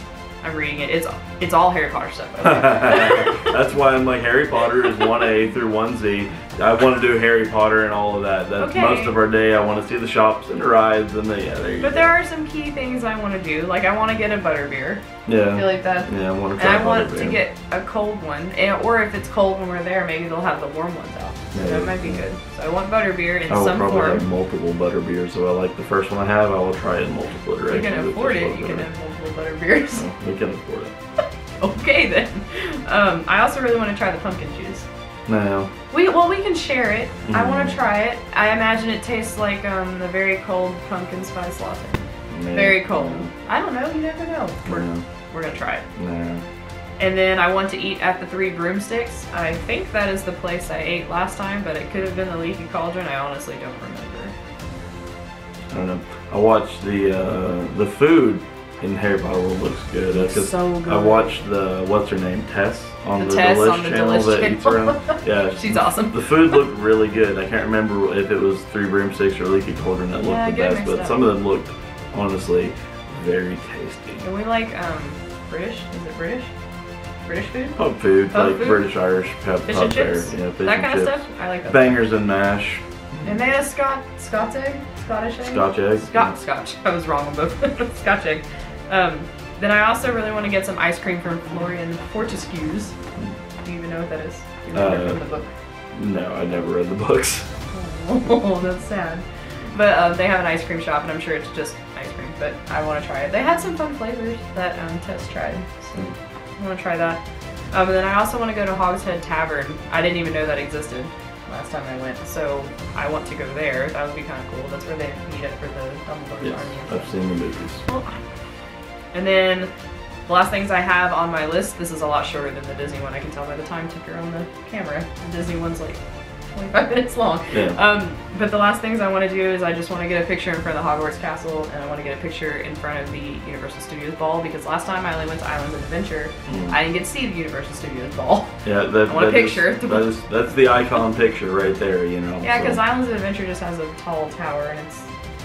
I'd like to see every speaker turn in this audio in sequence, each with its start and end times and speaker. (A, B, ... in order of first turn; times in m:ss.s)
0:00.4-0:03.5 A
0:02.4-0:12.1 B
0:08.6-0:09.2 A
0:11.8-0:24.2 A
0:15.3-0:17.4 B
0:21.5-0:22.2 B
0:23.5-0:28.9 B
0:27.7-0:30.0 A
0:29.9-0:30.9 B
0:31.6-0:34.9 A
0:35.3-0:35.7 B
0:35.9-0:45.8 A
0:37.3-0:37.8 B
0:42.3-0:43.3 B
0:44.7-0:45.0 B
0:46.0-0:46.4 B
0:47.0-0:54.3 A
0:55.7-1:14.2 B
1:00.1-1:01.4 A
1:03.2-1:06.3 A
1:10.2-1:11.3 A
1:14.2-1:16.5 A
1:17.3-1:17.8 A
1:17.8-1:23.4 B
1:18.3-1:18.9 A
1:19.7-1:22.0 A
1:23.2-1:33.0 A
1:25.4-1:26.4 B
1:33.6-1:35.5 A
1:34.7-1:35.2 B
1:35.9-1:37.5 B
1:37.7-1:47.2 A
1:47.7-1:57.1 A
1:56.4-1:57.8 B
1:57.8-1:58.2 A
1:59.1-1:59.7 A
2:00.3-2:06.0 A
2:06.5-2:20.1 A
2:07.5-2:07.8 B
2:16.5-2:16.8 B
2:18.6-2:22.8 B
2:22.4-2:25.1 A